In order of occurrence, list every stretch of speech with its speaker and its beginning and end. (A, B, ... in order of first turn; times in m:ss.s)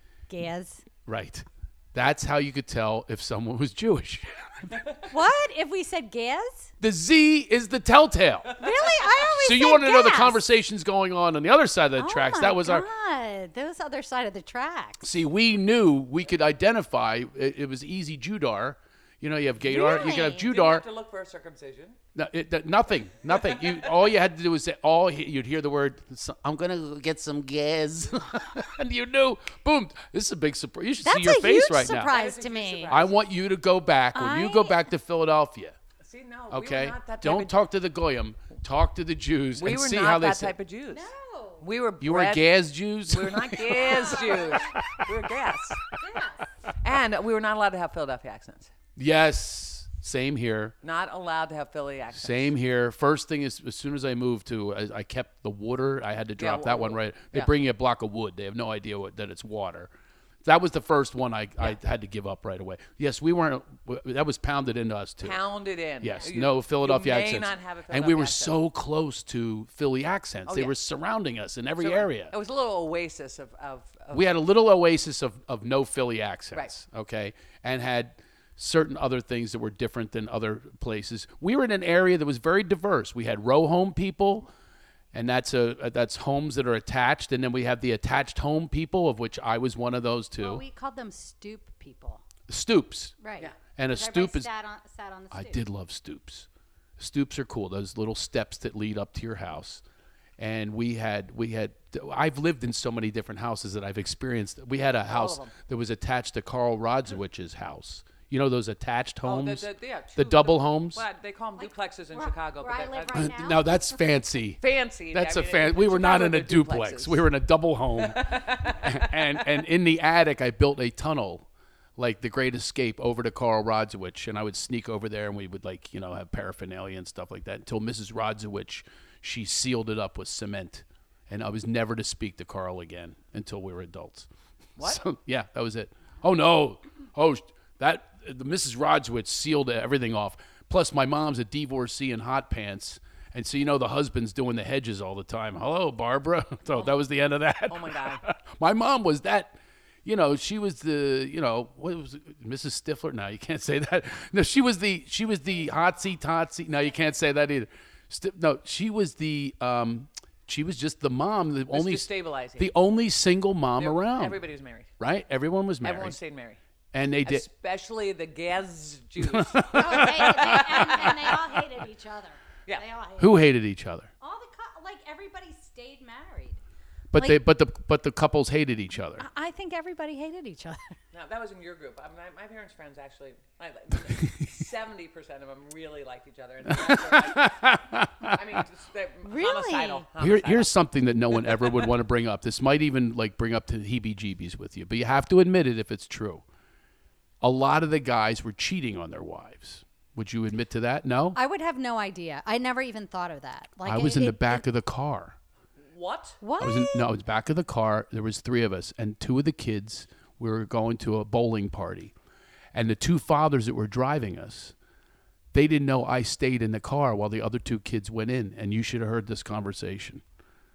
0:00.3-0:00.8 A
0:01.1-0:04.8 B
0:04.7-0:05.0 C
0:05.1-0:06.7 A
0:06.8-0:08.6 B
0:08.6-0:10.4 A
0:08.6-0:09.0 C
0:09.3-0:12.9 B
0:12.0-0:15.1 A
0:15.0-0:20.8 B
0:19.6-0:20.5 A
0:19.7-0:22.0 C
0:22.2-0:32.1 B
0:31.0-0:33.0 A
0:32.1-0:33.2 C
0:32.9-0:35.8 B
0:34.1-0:34.9 A
0:36.0-0:37.6 C
0:36.5-0:40.5 B
0:39.6-0:41.1 C
0:40.9-0:41.6 A
0:41.6-0:42.5 C
0:42.0-0:45.1 B
0:43.1-0:45.9 C
0:43.8-0:44.8 A
0:46.0-0:46.5 A
0:46.8-0:48.7 C
0:49.0-0:50.7 B
0:50.8-0:52.5 C
0:52.1-0:59.9 B
0:56.4-0:57.5 C
1:00.4-1:05.4 B
1:05.2-1:08.6 C
1:06.0-1:12.3 B
1:10.5-1:10.7 C
1:11.8-1:14.3 C
1:14.1-1:24.5 B
1:25.1-1:30.6 B
1:30.4-1:32.2 A
1:32.5-1:33.2 B
1:33.2-1:35.6 A
1:33.8-1:34.5 B
1:35.3-1:36.5 B
1:37.0-1:39.8 B
1:40.4-1:51.0 B
1:45.1-1:45.5 C
1:49.2-1:53.3 C
1:51.6-1:54.0 A
1:53.1-1:54.6 B
1:54.6-1:57.2 C
1:55.1-2:14.3 B
1:58.0-1:59.4 C
2:14.8-2:42.1 B
2:27.7-2:28.2 C
2:41.7-2:42.7 C
2:42.6-2:44.4 B
2:43.8-2:44.9 C
2:45.0-2:46.2 B
2:45.8-2:46.6 C
2:46.9-2:47.5 B
2:47.2-2:51.3 C
2:49.2-2:50.8 B
2:49.7-2:53.4 A
2:53.2-2:54.1 B
2:54.2-2:56.6 A
2:57.1-2:59.2 B
2:57.2-2:57.4 A
2:59.2-3:01.0 A
3:01.1-3:07.6 C
3:06.7-3:08.6 B
3:08.2-3:10.7 C
3:09.2-3:10.0 A
3:10.2-3:16.4 B
3:11.4-3:11.8 C
3:17.4-3:21.4 B
3:21.4-3:24.6 A
3:23.8-3:25.4 B
3:25.9-3:26.4 C
3:26.4-3:27.1 A
3:26.6-3:32.1 B
3:32.7-3:34.7 B
3:35.5-3:40.2 B